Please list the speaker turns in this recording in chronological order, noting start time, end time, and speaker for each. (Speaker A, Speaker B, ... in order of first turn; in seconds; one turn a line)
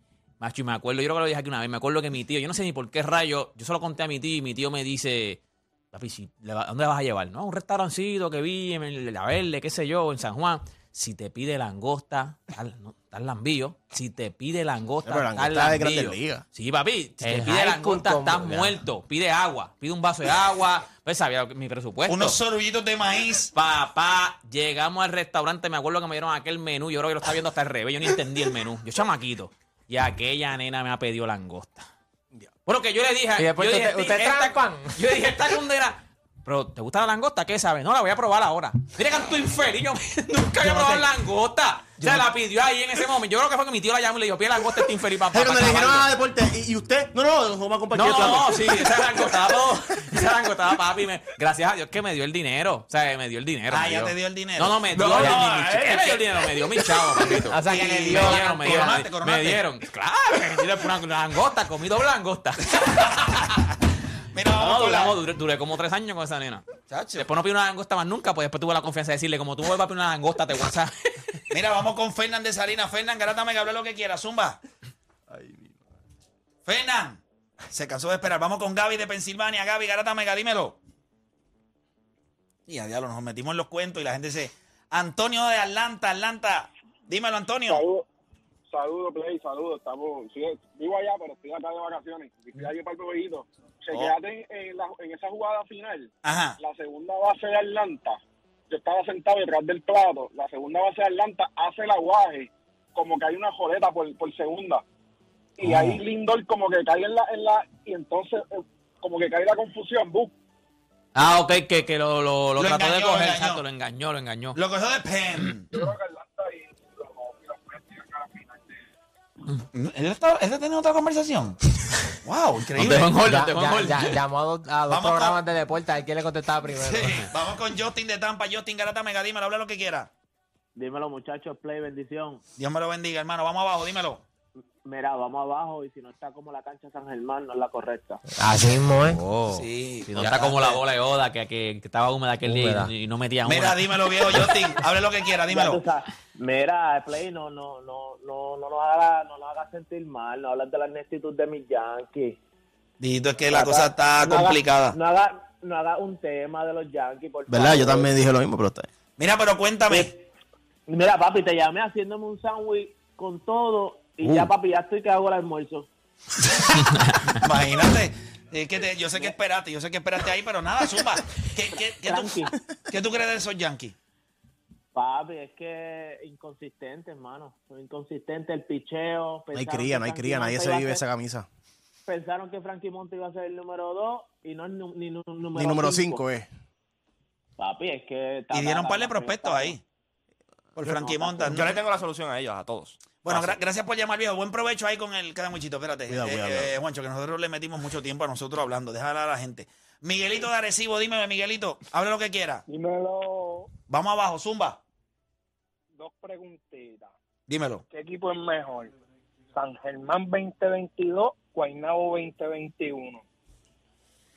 Speaker A: 0.4-5.4
Speaker A: 5.9-22.4
Speaker B: 15.1-16.4
Speaker C: 17.2-18.8
Speaker D: 22.1-23.5
Speaker A: 23.5-31.9
Speaker A: 32.7-46.1
Speaker C: 33.4-35.0
Speaker D: 40.6-41.1
Speaker D: 42.0-42.3
Speaker B: 45.3-48.9
Speaker A: 47.9-63.4
Speaker D: 53.7-56.2
Speaker E: 55.0-56.1
Speaker C: 57.5-59.0
Speaker D: 57.7-59.6
Speaker D: 64.3-65.2
Speaker A: 64.5-66.6
Speaker D: 66.9-67.3
Speaker A: 67.2-71.4
Speaker D: 71.5-74.6
Speaker E: 75.3-75.7
Speaker D: 76.7-80.8
Speaker D: 82.7-87.8
Speaker F: 87.7-88.0
Speaker F: 88.7-104.8
Speaker D: 96.2-96.6
Speaker F: 105.6-110.3
Speaker A: 111.2-114.6
Speaker D: 112.6-113.6
Speaker D: 114.5-115.7
Speaker F: 115.7-118.8
Speaker D: 119.7-121.6
Speaker D: 122.2-123.2
Speaker A: 122.8-124.2
Speaker C: 123.2-127.3
Speaker D: 124.9-125.4
Speaker D: 126.8-130.1
Speaker G: 130.8-132.4
Speaker D: 132.6-134.2
Speaker G: 134.8-138.2
Speaker C: 138.3-139.2
Speaker A: 139.1-144.5
Speaker D: 139.5-140.8
Speaker C: 142.5-142.9
Speaker D: 143.4-145.8
Speaker G: 145.5-152.4
Speaker D: 153.0-155.0
Speaker G: 153.5-158.1
Speaker B: 157.5-158.9
Speaker D: 159.2-160.1
Speaker G: 160.9-165.9
Speaker D: 166.8-173.9
Speaker G: 171.7-172.6
Speaker G: 174.9-181.0
Speaker B: 179.5-181.5
Speaker G: 182.1-186.2
Speaker B: 185.6-186.5
Speaker G: 187.6-189.8
Speaker D: 188.5-189.8
Speaker D: 190.8-191.8
Speaker G: 190.8-191.6
Speaker E: 191.5-193.6
Speaker D: 193.2-202.7
Speaker B: 196.1-196.7
Speaker F: 202.7-203.7
Speaker D: 203.9-204.8
Speaker D: 207.5-207.8